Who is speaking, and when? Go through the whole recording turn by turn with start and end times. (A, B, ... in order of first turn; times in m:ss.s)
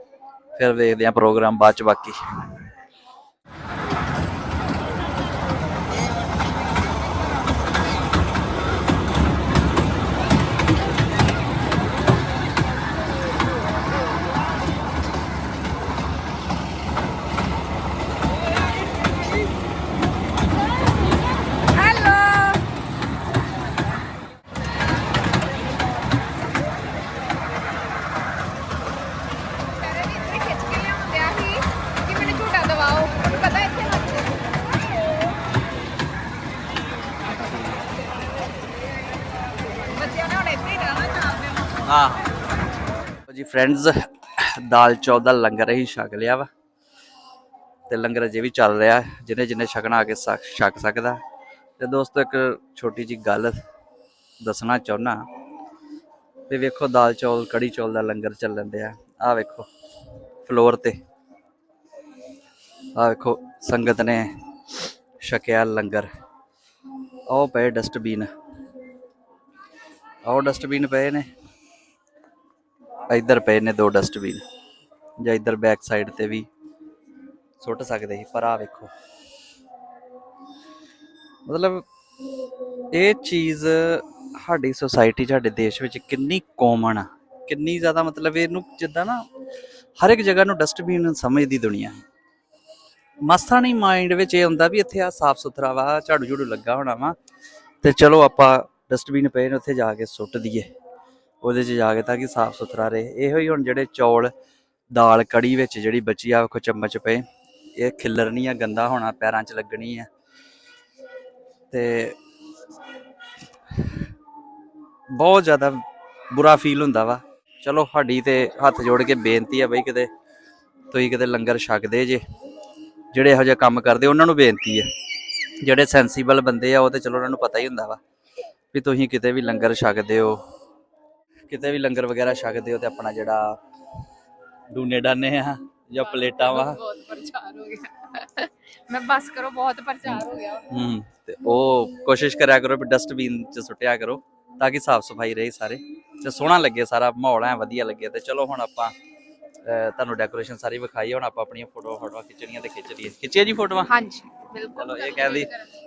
0:00.6-0:02.2 A
0:21.6-0:22.7 B
0:29.7-0:35.0 B
0:39.9-0:41.5 B
0:41.8-0:42.3 A
0:43.3-0:46.5 A
0:47.9-0:51.2 A
0:51.8-0:53.6 A
0:54.4-0:55.2 A
0:56.5-0:59.7 A
1:00.4-1:01.0 A
1:03.0-1:04.3 A
1:05.2-1:06.1 A
1:07.3-1:08.3 A
1:10.2-1:11.3 A
1:13.1-1:14.5 A
1:15.2-1:16.5 A
1:17.6-1:18.9 A
1:21.4-1:21.8 A
1:22.9-1:29.3 A
1:30.0-1:32.0 A
1:33.2-1:37.2 A
1:37.8-1:40.7 A
1:41.4-1:44.3 A
1:44.9-1:47.2 A
1:47.8-1:50.1 A
1:51.7-1:52.2 A
1:55.1-2:00.1 A
2:00.9-2:02.2 A
2:03.1-2:04.9 A
2:05.6-2:08.0 A
2:08.7-2:10.4 A
2:11.5-2:13.6 A
2:14.7-2:16.8 A
2:16.0-2:20.7 B
2:20.1-2:29.0 A
2:29.6-2:33.9 A
2:33.9-2:35.6 B
2:34.7-2:35.5 A